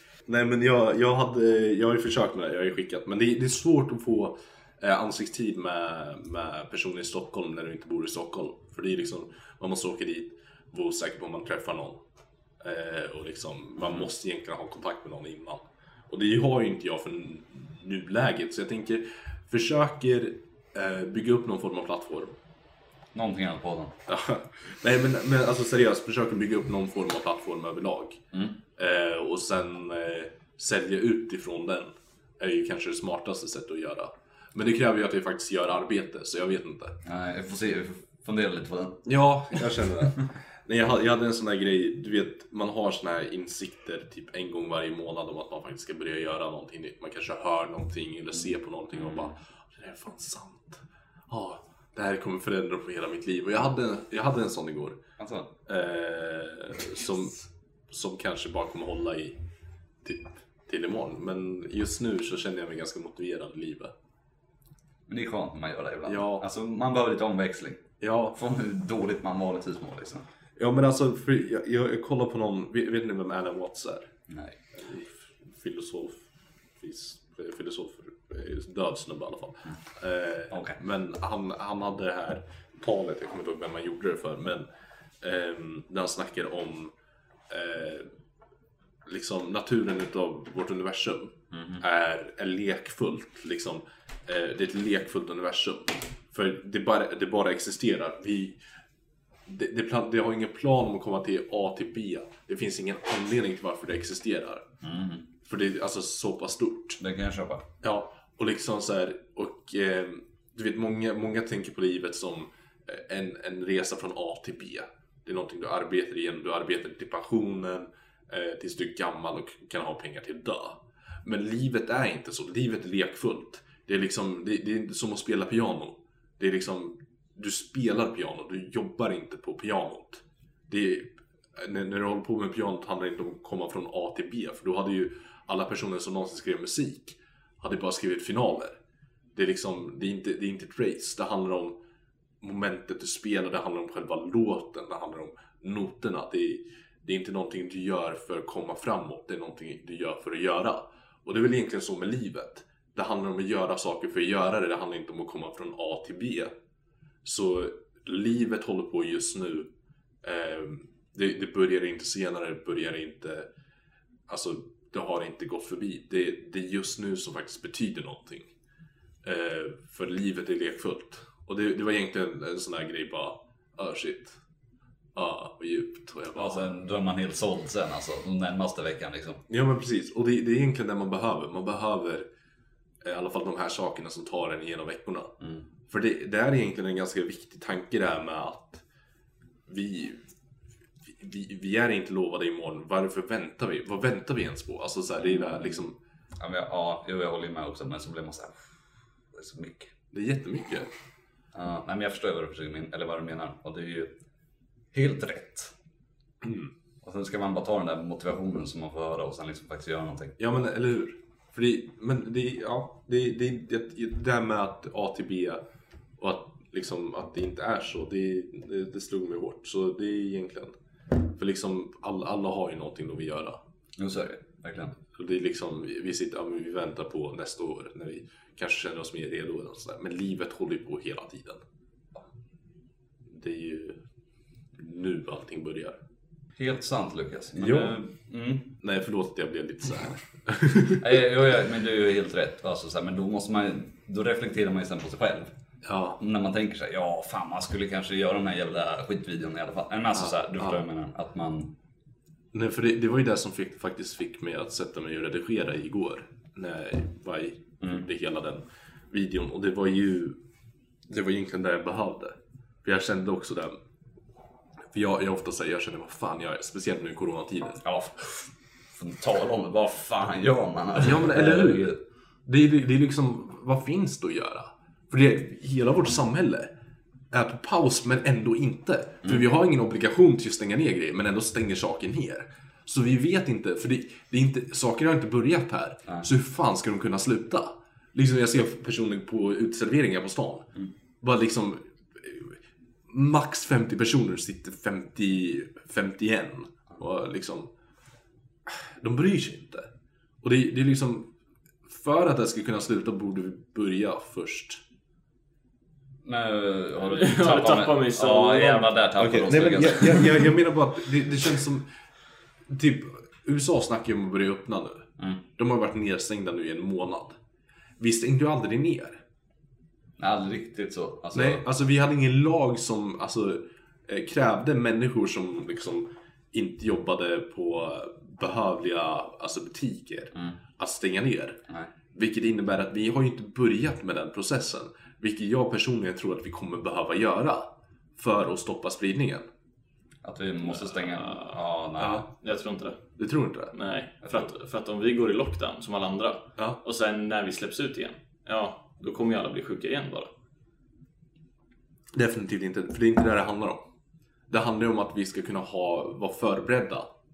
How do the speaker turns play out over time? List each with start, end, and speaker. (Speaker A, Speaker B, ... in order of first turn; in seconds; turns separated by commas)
Speaker A: 0.3-12.0, Speaker A: 12.6-22.4, Speaker B: 23.1-23.9, Speaker A: 24.1-28.2, Speaker B: 28.3-28.6, Speaker A: 28.8-37.0, Speaker B: 37.0-39.0, Speaker A: 39.0-55.0, Speaker B: 49.0-49.3, Speaker B: 55.2-55.5, Speaker A: 55.7-59.4, Speaker A: 60.0-63.9, Speaker B: 65.1-67.8, Speaker A: 66.1-66.4, Speaker A: 68.0-68.4, Speaker B: 68.3-70.2, Speaker A: 70.6-74.1, Speaker B: 74.3-74.6, Speaker A: 74.8-76.2, Speaker A: 76.8-84.7, Speaker B: 80.5-80.8, Speaker A: 85.2-86.9, Speaker A: 87.5-88.1, Speaker A: 89.1-98.6, Speaker B: 91.5-91.8, Speaker A: 99.5-104.7, Speaker B: 104.8-105.2, Speaker A: 105.5-107.0, Speaker B: 107.0-107.7, Speaker A: 107.8-138.8, Speaker A: 139.3-141.8, Speaker A: 142.4-156.5, Speaker A: 157.2-159.7, Speaker A: 160.2-163.5, Speaker A: 164.3-168.5, Speaker A: 169.2-174.4, Speaker A: 175.2-176.7, Speaker B: 176.3-179.4, Speaker A: 179.5-182.3, Speaker A: 183.0-185.3, Speaker B: 185.4-185.7, Speaker A: 185.9-188.8, Speaker A: 189.7-190.2, Speaker A: 191.1-196.0, Speaker B: 195.3-195.8, Speaker B: 196.4-198.6, Speaker B: 199.3-199.9, Speaker A: 200.1-200.9, Speaker B: 201.5-204.1, Speaker B: 204.9-205.7, Speaker A: 206.4-206.7, Speaker B: 207.0-210.4, Speaker A: 210.4-215.6, Speaker A: 216.2-220.7, Speaker A: 221.3-223.6, Speaker B: 224.0-224.9, Speaker A: 225.2-231.6, Speaker A: 233.3-234.0, Speaker A: 234.8-236.0, Speaker B: 236.6-238.7, Speaker A: 237.6-238.0, Speaker A: 238.8-241.0, Speaker B: 241.0-245.5, Speaker A: 245.8-246.2, Speaker B: 246.2-251.7, Speaker A: 250.2-250.8, Speaker A: 252.5-260.4, Speaker A: 261.1-263.8, Speaker A: 264.9-267.8, Speaker B: 267.8-272.0, Speaker A: 271.0-271.9, Speaker A: 272.5-276.7, Speaker A: 277.3-290.7, Speaker A: 291.2-292.6, Speaker A: 293.1-297.7, Speaker A: 298.7-299.9, Speaker A: 300.4-301.3, Speaker A: 301.9-304.8, Speaker B: 306.2-310.4, Speaker C: 307.1-308.9, Speaker A: 309.2-311.9, Speaker A: 312.7-317.4, Speaker A: 318.0-319.2, Speaker B: 320.2-321.6, Speaker A: 321.3-331.6, Speaker A: 332.1-339.5, Speaker B: 340.2-342.3, Speaker C: 340.7-341.6, Speaker A: 342.0-342.2, Speaker C: 342.3-343.0, Speaker A: 343.2-343.7, Speaker C: 343.7-350.3, Speaker A: 352.1-353.8, Speaker A: 354.5-357.1